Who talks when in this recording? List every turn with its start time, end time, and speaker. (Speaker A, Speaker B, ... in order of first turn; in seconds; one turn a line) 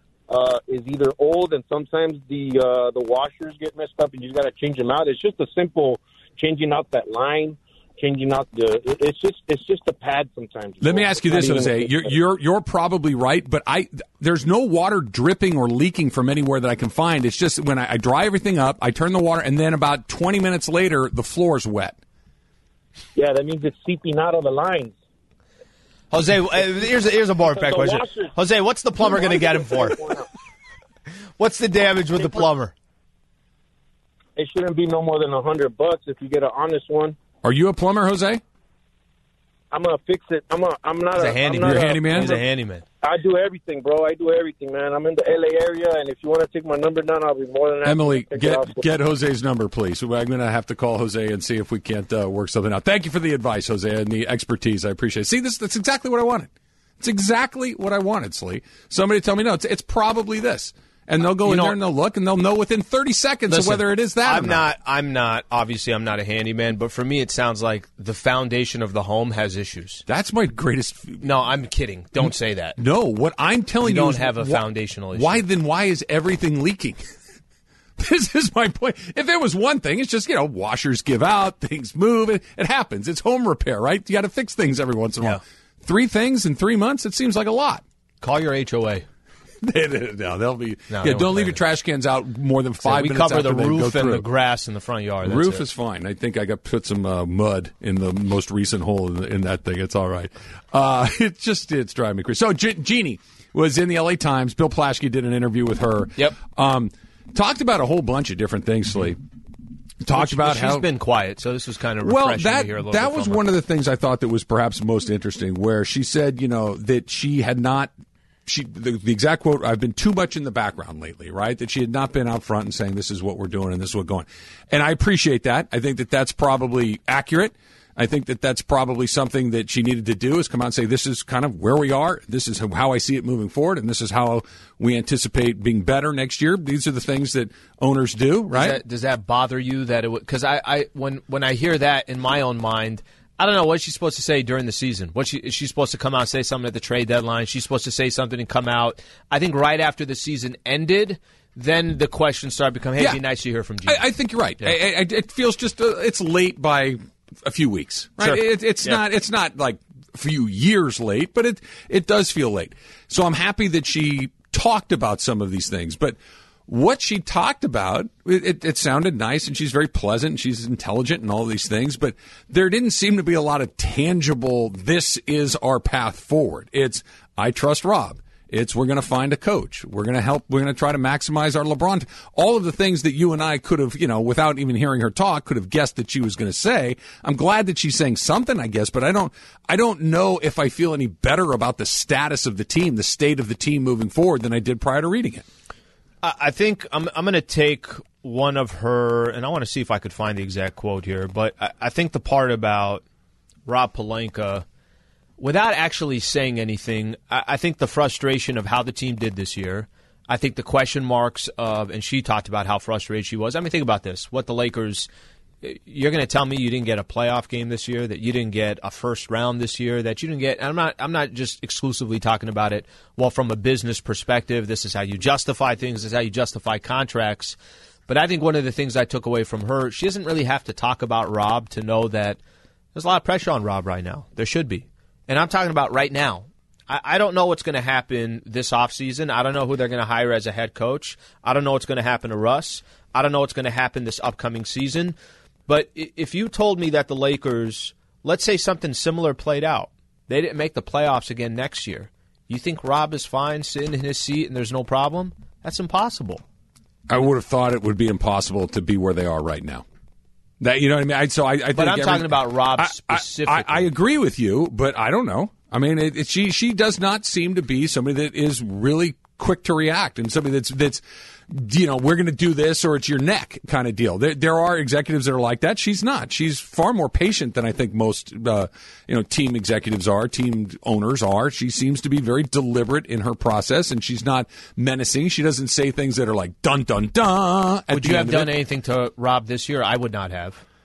Speaker A: 0.3-12.1
Speaker B: 10.8-22.0
Speaker A: 23.2-24.9
Speaker C: 26.1-30.0
Speaker A: 27.5-28.3
Speaker A: 29.0-30.3
Speaker C: 31.4-32.7
Speaker A: 34.4-37.2
Speaker B: 37.4-38.4
Speaker A: 39.7-42.4
Speaker C: 41.1-42.8
Speaker B: 41.6-42.4
Speaker A: 43.0-48.9
Speaker B: 47.8-64.7
Speaker C: 61.4-61.8
Speaker C: 63.5-70.0
Speaker B: 70.1-71.2
Speaker C: 71.2-72.8
Speaker B: 72.2-77.0
Speaker C: 73.8-75.4
Speaker B: 78.0-87.8
Speaker C: 88.2-89.1
Speaker B: 89.6-94.3
Speaker C: 90.9-91.6
Speaker C: 92.8-95.7
Speaker B: 95.2-109.2
Speaker B: 110.0-110.9
Speaker C: 110.1-113.5
Speaker B: 112.0-117.9
Speaker B: 118.5-138.8
Speaker C: 138.5-154.1
Speaker B: 153.0-153.2
Speaker B: 153.9-195.5
Speaker C: 158.2-159.0
Speaker C: 196.2-203.0
Speaker C: 203.7-204.7
Speaker C: 205.4-215.1
Speaker C: 215.6-227.6
Speaker C: 228.1-232.4
Speaker C: 232.9-245.2
Speaker C: 245.7-256.4
Speaker B: 257.1-259.9
Speaker B: 260.6-288.6
Speaker C: 261.7-263.9
Speaker C: 287.9-290.6